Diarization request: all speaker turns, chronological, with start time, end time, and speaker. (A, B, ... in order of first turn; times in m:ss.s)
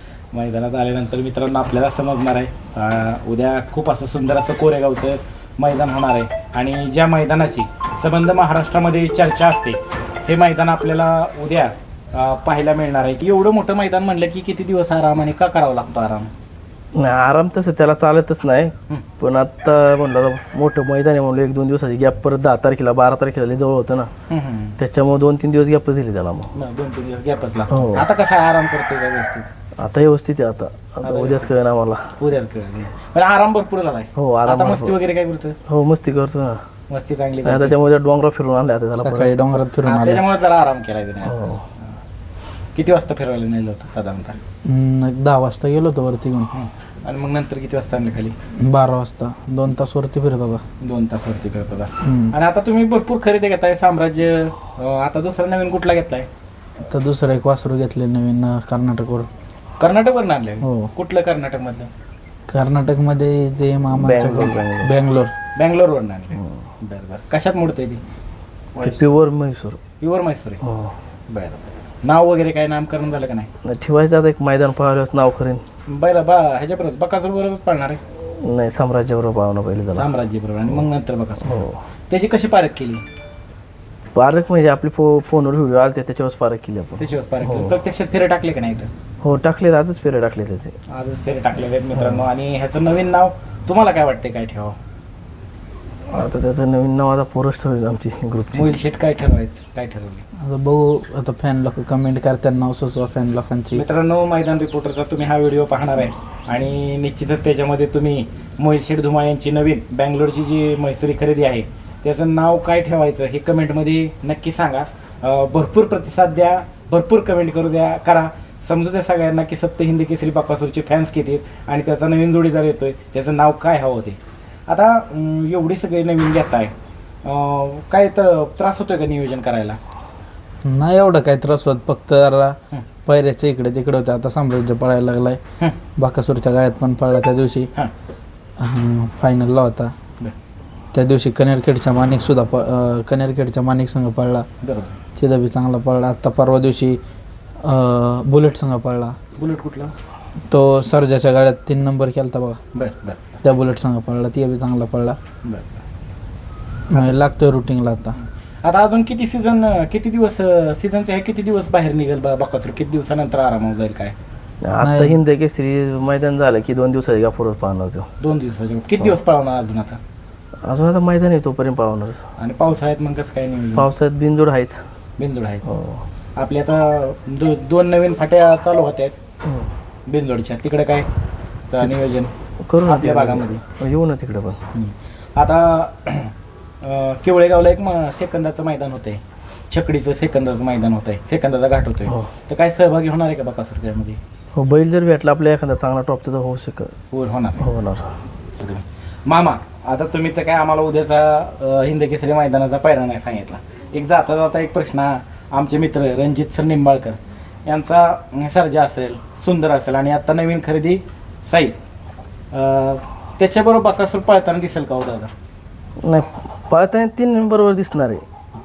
0:00.3-0:16.3 A
0:17.0-0:24.1 B
0:24.3-0:24.8 A
0:24.8-0:26.5 B
0:26.5-0:29.5 A
0:27.7-0:28.0 B
0:29.8-0:32.1 B
0:31.0-0:31.5 A
0:32.2-0:35.6 A
0:34.2-0:35.0 B
0:35.7-0:36.6 B
0:36.9-0:37.8 A
0:37.5-0:39.3 B
0:39.0-0:40.2 C
0:39.8-0:41.9 A
0:41.3-0:41.6 B
0:42.8-0:44.4 A
0:44.6-0:46.5 C
0:46.5-0:48.4 A
0:48.6-0:50.6 C
0:50.8-0:56.3 A
0:52.0-0:52.3 C
0:56.9-0:59.3 C
0:59.8-1:01.9 A
1:00.6-1:00.9 C
1:02.5-1:05.3 C
1:03.9-1:04.9 B
1:05.6-1:08.0 A
1:08.8-1:09.8 B
1:10.0-1:10.6 A
1:10.6-1:10.9 B
1:11.3-1:13.5 A
1:13.6-1:15.6 B
1:15.9-1:18.0 A
1:18.4-1:20.1 B
1:19.9-1:23.0 A
1:21.5-1:21.8 B
1:24.2-1:27.8 B
1:27.0-1:28.9 A
1:29.2-1:30.8 B
1:30.9-1:34.8 A
1:36.1-1:38.7 B
1:38.5-1:40.2 A
1:40.4-1:43.8 C
1:43.7-2:06.7 A
2:07.2-2:09.8 A
2:10.6-2:15.4 C
2:16.0-2:17.7 C
2:18.6-2:19.9 C
2:20.9-2:24.5 C
2:24.6-2:25.0 A
2:25.2-2:27.0 C
2:27.6-2:29.2 C
2:29.4-2:29.9 A
2:30.5-2:32.6 C
2:32.7-2:33.4 A
2:33.4-2:35.2 C
2:35.4-2:35.8 A
2:36.9-2:38.2 C
2:38.6-2:44.2 A
2:44.6-2:48.1 B
2:44.8-2:45.2 C
2:48.2-2:50.0 A
2:50.6-2:52.2 B
2:52.4-2:53.9 A
2:53.8-2:54.8 B
2:55.2-2:55.7 A
2:55.7-2:56.0 B
2:56.4-2:59.2 A
3:00.1-3:01.1 A
3:01.7-3:02.3 A
3:02.6-3:04.6 B
3:02.9-3:03.7 A
3:04.7-3:14.2 A
3:14.6-3:16.9 B
3:17.1-3:17.7 A
3:17.6-3:18.1 B
3:18.6-3:31.8 A
3:32.5-3:35.3 A
3:36.0-3:38.2 B